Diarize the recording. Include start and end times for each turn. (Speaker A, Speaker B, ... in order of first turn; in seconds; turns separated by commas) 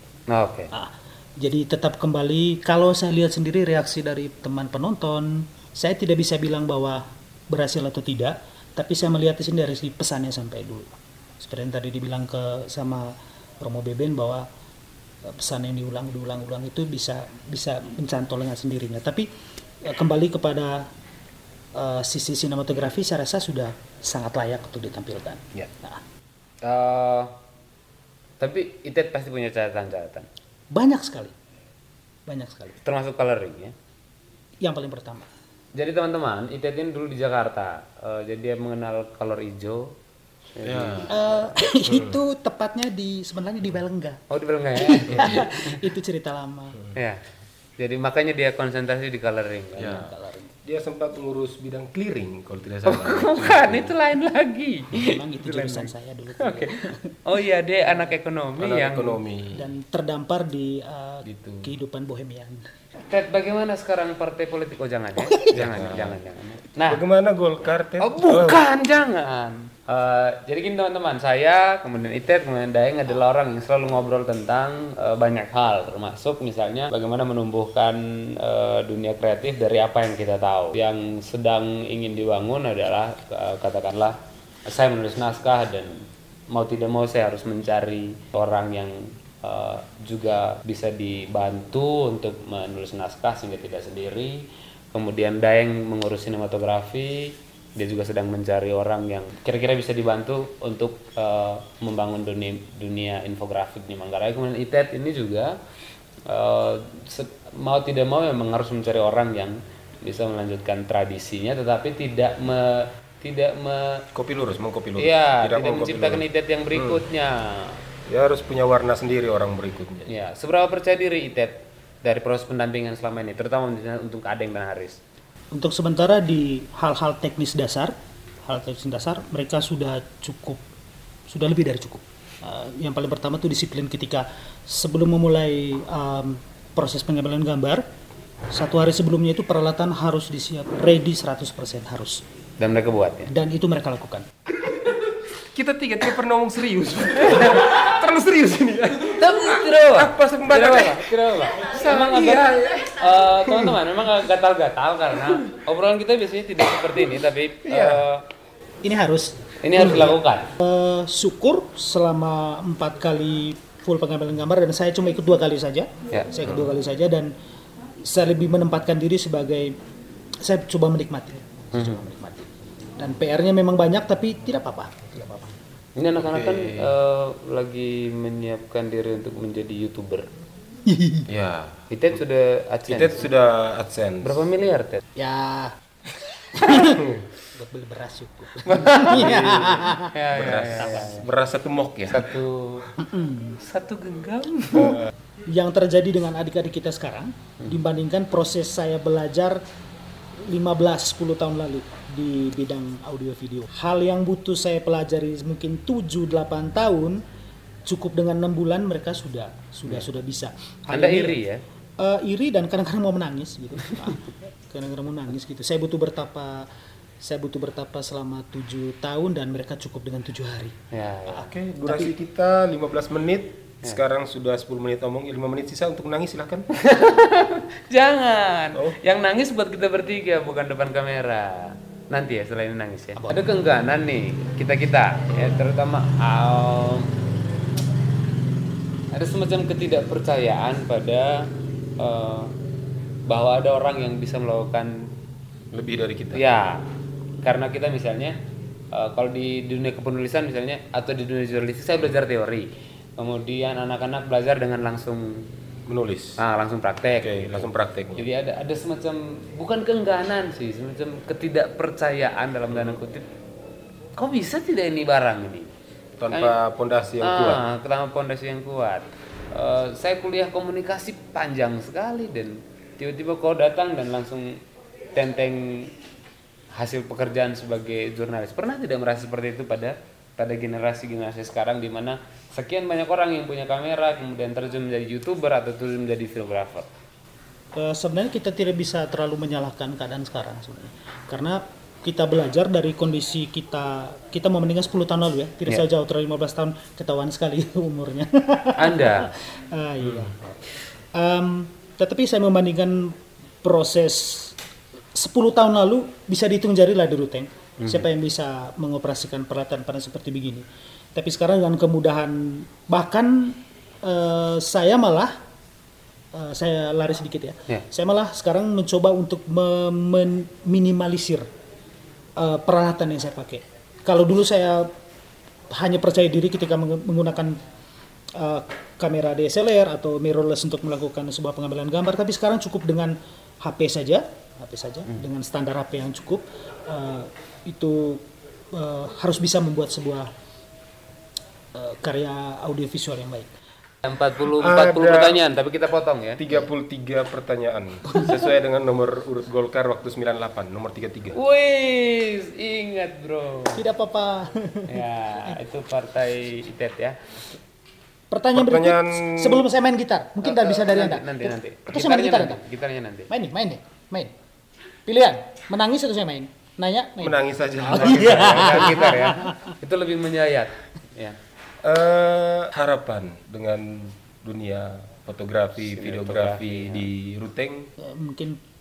Speaker A: 0.3-0.7, Speaker B: 0.7-14.5, Speaker B: 15.3-19.3, Speaker B: 19.8-20.9, Speaker B: 21.8-26.0, Speaker A: 26.6-27.3, Speaker A: 28.4-30.3, Speaker B: 30.7-31.3, Speaker B: 32.3-32.8, Speaker A: 32.8-33.7, Speaker B: 34.6-35.3, Speaker A: 35.8-40.0, Speaker A: 40.5-41.4, Speaker C: 40.6-41.1, Speaker B: 41.1-44.2, Speaker C: 41.9-42.2, Speaker A: 44.3-45.8, Speaker B: 44.8-46.8, Speaker A: 46.9-47.2, Speaker A: 47.8-50.1, Speaker C: 49.8-50.1, Speaker B: 49.9-50.5, Speaker C: 50.6-53.9, Speaker A: 52.9-59.2, Speaker B: 55.0-57.1, Speaker C: 58.6-59.7, Speaker B: 59.5-62.7, Speaker C: 61.2-61.8, Speaker A: 63.1-67.0, Speaker B: 65.2-65.5, Speaker C: 65.5-66.2, Speaker C: 66.9-68.6, Speaker A: 68.0-105.6, Speaker A: 106.3-114.0, Speaker C: 114.2-117.0, Speaker A: 115.0-117.8, Speaker C: 118.1-120.1, Speaker A: 120.1-125.0, Speaker B: 125.5-127.9, Speaker B: 128.4-130.6, Speaker B: 131.3-137.8, Speaker B: 138.5-142.2, Speaker A: 142.6-143.3, Speaker B: 143.3-144.3, Speaker C: 145.5-153.8, Speaker A: 147.3-147.8, Speaker A: 149.1-158.3, Speaker C: 157.7-158.0, Speaker B: 158.8-167.3, Speaker A: 159.6-160.5, Speaker A: 166.1-166.6, Speaker B: 168.1-169.8, Speaker B: 170.4-175.6, Speaker A: 171.7-172.0, Speaker A: 176.0-180.3, Speaker C: 176.2-176.9, Speaker B: 180.9-181.3, Speaker C: 181.3-181.8, Speaker A: 181.9-183.2, Speaker C: 182.9-184.4, Speaker A: 184.2-185.0, Speaker B: 185.2-185.8, Speaker B: 186.5-190.1, Speaker A: 188.6-191.3, Speaker C: 189.1-192.4, Speaker A: 192.0-192.9, Speaker B: 193.0-193.6, Speaker A: 193.6-195.0, Speaker B: 194.8-199.6, Speaker B: 200.4-207.2, Speaker B: 207.8-211.4, Speaker A: 210.9-211.6, Speaker B: 212.0-216.7, Speaker B: 217.2-220.8, Speaker A: 220.9-221.5, Speaker B: 221.3-222.1, Speaker C: 221.4-226.7, Speaker A: 226.7-237.1, Speaker B: 233.2-233.4, Speaker A: 239.1-242.5, Speaker A: 243.3-245.1, Speaker C: 245.7-246.4, Speaker A: 246.3-246.9, Speaker A: 247.4-248.4, Speaker A: 248.9-255.5, Speaker C: 255.9-256.4, Speaker A: 256.4-263.3, Speaker C: 257.2-258.3, Speaker A: 264.2-265.7, Speaker C: 266.2-267.6, Speaker A: 266.3-266.6, Speaker A: 267.2-274.6, Speaker A: 275.1-275.9, Speaker A: 276.8-286.9, Speaker B: 287.7-300.4, Speaker A: 298.8-299.3, Speaker B: 301.1-304.6, Speaker B: 305.1-315.4, Speaker A: 307.8-308.1, Speaker B: 316.3-321.5, Speaker B: 322.4-324.9, Speaker B: 325.7-327.6, Speaker B: 328.4-340.3, Speaker B: 341.7-343.5, Speaker A: 344.0-346.4, Speaker C: 344.5-345.4, Speaker C: 346.4-351.4, Speaker A: 351.3-353.9, Speaker B: 353.8-355.6, Speaker A: 354.9-357.2, Speaker B: 358.3-362.6, Speaker C: 358.5-359.7, Speaker A: 360.4-363.3, Speaker B: 363.3-364.3, Speaker B: 365.1-369.7, Speaker C: 367.2-369.1, Speaker A: 367.9-371.4, Speaker C: 371.8-377.9, Speaker A: 375.8-377.1, Speaker B: 378.0-378.6